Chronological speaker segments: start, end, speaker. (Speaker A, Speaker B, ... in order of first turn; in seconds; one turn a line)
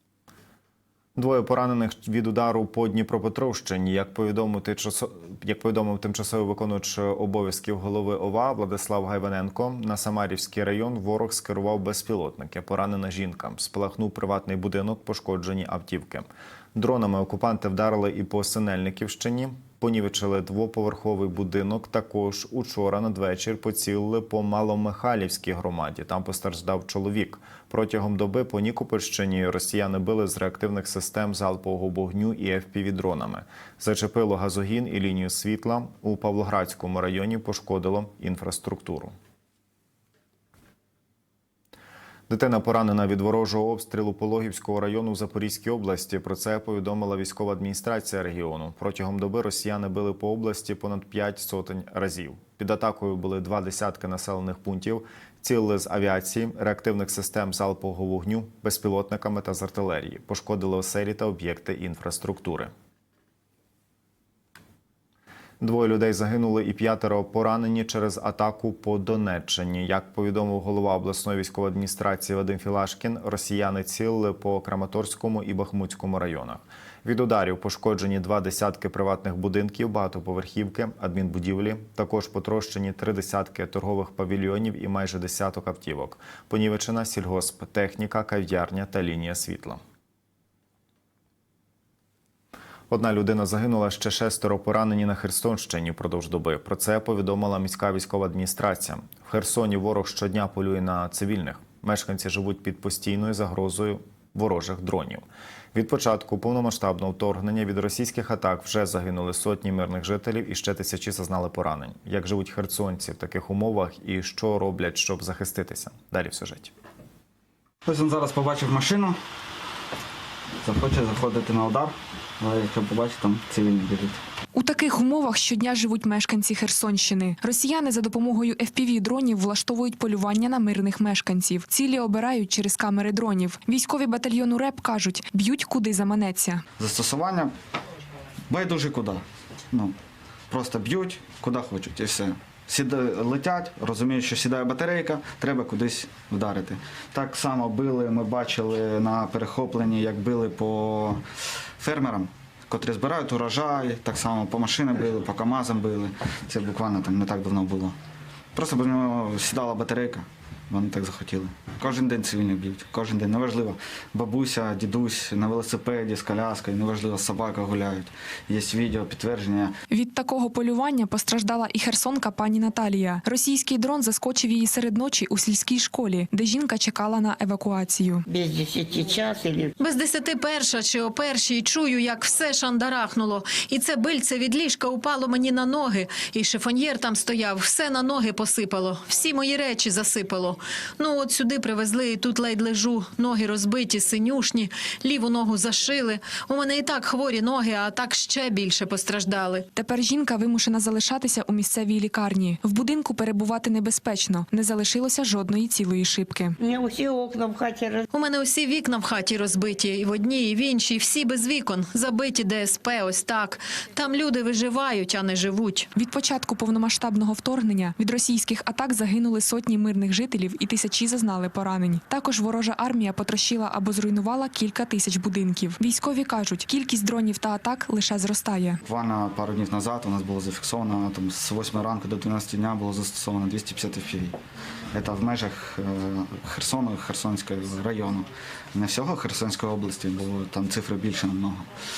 Speaker A: 1.2-39.1
Speaker A: 42.3-62.7
Speaker A: 65.6-89.8
Speaker A: 92.9-116.7
Speaker B: 117.8-119.2
Speaker B: 120.6-124.2
Speaker C: 124.5-136.6
Speaker B: 136.8-137.5
Speaker B: 138.5-139.9
Speaker B: 140.5-151.2
Speaker B: 151.8-157.9
Speaker B: 158.5-169.7
Speaker C: 169.9-178.2
Speaker D: 178.3-179.7
Speaker E: 179.8-199.7
Speaker C: 199.8-206.6
Speaker D: 206.6-208.1
Speaker E: 208.1-215.9
Speaker C: 216.0-228.8
Speaker B: 228.8-234.4
Speaker B: 234.9-241.7